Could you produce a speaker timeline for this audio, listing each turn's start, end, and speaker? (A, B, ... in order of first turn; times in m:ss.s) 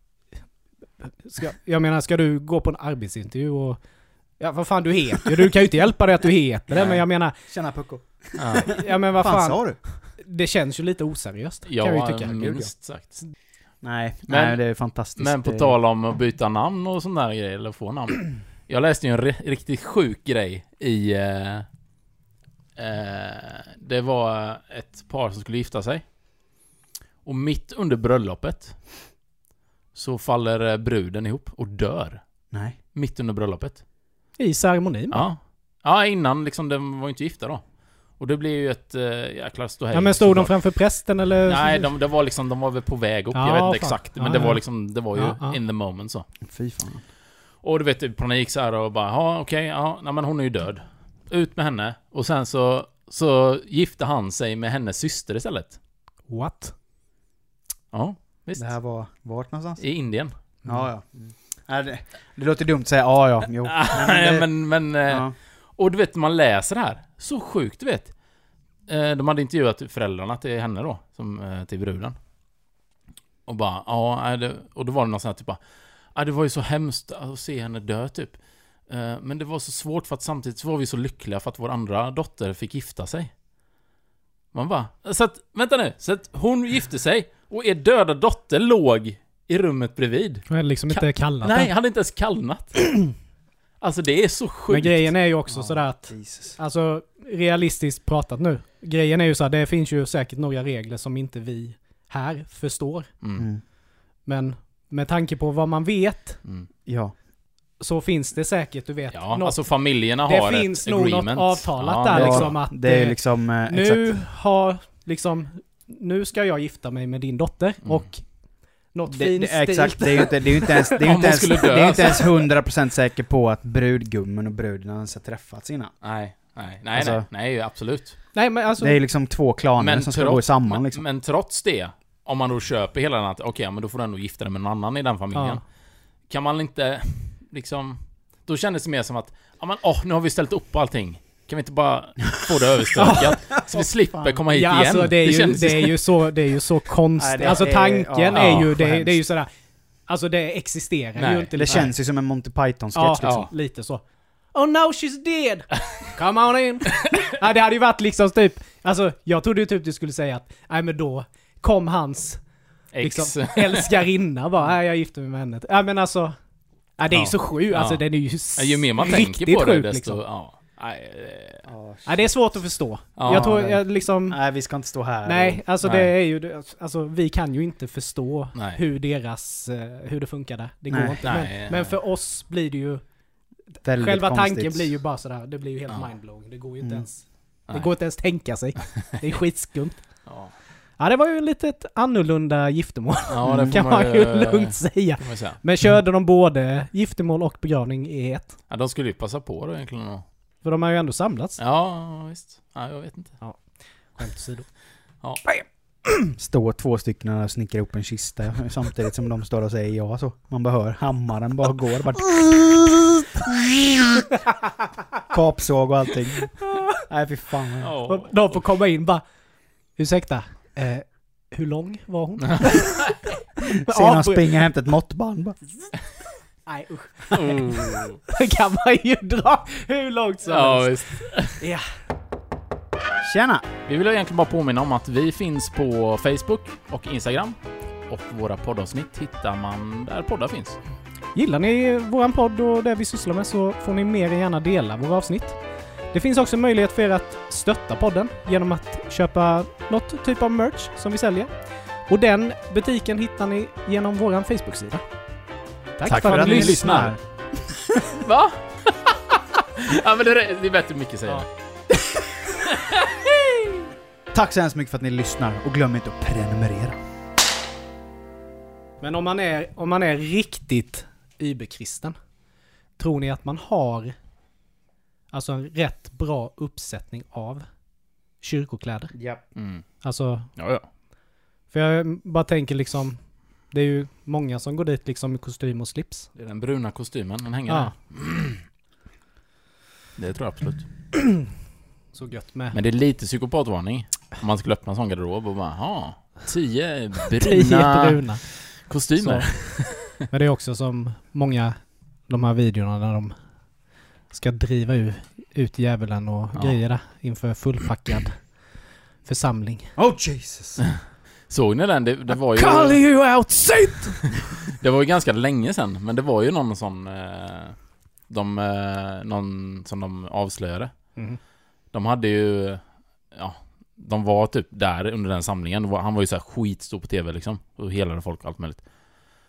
0:01.0-0:03.8 A
0:04.4-0:07.4 A
0:06.7-0:07.0 B
0:07.5-0:09.8 C
0:08.4-0:08.8 B
0:08.6-0:09.6 A
0:10.2-0:12.4 A
0:11.6-0:13.2 B
0:12.3-0:12.7 C
0:13.8-0:15.7 C
0:14.3-0:14.6 B
0:15.1-0:21.6 B
0:22.8-0:26.0 B
0:27.2-0:28.8 B
0:29.9-0:32.2 B
0:32.5-0:32.8 C
0:32.9-0:33.8 B
0:34.4-0:35.2 A
0:35.1-0:37.6 B
0:38.2-0:40.5 B
0:39.9-0:41.9 A
0:41.4-0:46.2 B
0:43.3-0:44.6 A
0:45.1-0:45.6 A
0:46.4-0:47.0 C
0:47.6-0:55.8 B
0:56.3-0:56.7 A
0:57.9-0:58.7 B
0:58.6-0:59.8 C
0:59.8-1:00.3 B
1:00.6-1:04.5 C
1:03.6-1:08.1 B
1:05.0-1:05.3 C
1:08.9-1:12.2 B
1:13.5-1:15.6 B
1:16.1-1:23.3 B
1:24.5-1:33.0 B
1:30.5-1:31.7 A
1:33.8-1:35.1 B
1:34.7-1:43.1 A
1:35.5-1:36.6 C
1:43.2-1:43.5 B
1:43.4-1:43.6 C
1:44.2-1:46.4 A
1:46.8-1:47.1 C
1:47.8-1:49.6 A
1:49.1-1:52.5 B
1:50.2-1:58.2 A
1:52.1-1:54.1 C
1:58.9-2:01.0 A
1:59.1-2:05.9 C
2:01.0-2:02.3 B
2:06.0-2:08.2 B
2:06.9-2:07.2 C
2:08.3-2:09.0 A
2:08.8-2:11.0 C
2:09.8-2:15.6 B
2:15.3-2:15.6 A
2:16.3-2:26.0 B
2:23.0-2:24.4 C
2:23.0-2:23.3 A
2:24.5-2:29.5 A
2:27.2-2:29.2 C
2:28.3-2:28.7 B
2:30.1-2:31.9 A
2:31.2-2:31.8 B
2:31.6-2:33.5 C
2:32.9-2:34.0 A
2:33.2-2:33.5 B
2:34.5-2:42.4 A
2:42.9-2:44.0 B
2:43.0-2:46.4 A
2:47.0-2:50.2 A
2:47.1-2:51.7 B
2:51.6-2:52.3 C
2:52.0-2:54.4 A
2:53.2-2:53.5 B
2:53.2-2:55.6 C
2:55.2-3:03.0 A
2:55.8-2:56.1 B
2:58.5-2:58.8 B
3:00.9-3:01.2 C
3:01.2-3:01.9 B
3:03.8-3:04.9 C
3:04.0-3:10.1 A
3:10.2-3:10.5 B
3:11.0-3:18.5 A
3:13.3-3:15.6 B
3:13.4-3:13.8 C
3:18.7-3:20.2 B
3:20.6-3:21.6 A
3:21.6-3:23.4 B
3:24.1-3:24.7 A
3:26.1-3:34.3 C
3:35.2-3:37.9 C
3:36.6-3:37.0 A
3:37.8-3:38.6 B
3:38.0-3:39.2 A
3:40.0-3:43.1 A
3:42.5-3:42.9 B
3:43.6-3:45.6 C
3:43.7-3:44.6 A
3:46.6-3:51.9 A
3:47.3-3:48.2 B
3:50.4-3:51.6 B
3:53.2-3:53.6 C
3:53.9-3:57.6 B
3:58.1-4:00.8 B
4:01.3-4:05.6 A
4:06.1-4:11.5 A
4:12.1-4:15.0 A
4:16.0-4:17.1 A
4:16.0-4:17.7 C
4:16.0-4:17.1 B
4:18.1-4:21.4 B
4:22.6-4:23.8 B
4:24.3-4:27.0 C
4:29.0-4:32.1 A
4:33.0-4:34.2 A
4:35.3-4:37.6 A
4:38.4-4:39.1 A
4:39.1-4:39.4 C
4:39.6-4:39.8 B
4:40.0-4:40.5 A
4:40.6-4:40.8 B
4:41.7-4:43.2 A
4:43.7-4:46.3 A
4:46.4-4:48.6 B
4:47.7-4:47.9 A
4:50.2-4:50.9 B
4:51.1-4:51.4 A
4:52.1-4:52.8 A
4:52.7-5:00.0 B
4:57.4-4:58.4 A
4:59.2-5:03.3 A
5:04.3-5:08.4 A
5:09.2-5:09.9 A
5:10.0-5:10.8 C
5:11.5-5:13.0 B
5:12.5-5:14.2 A
5:14.2-5:17.7 B
5:18.3-5:20.9 B
5:21.9-5:22.8 B
5:23.3-5:28.8 B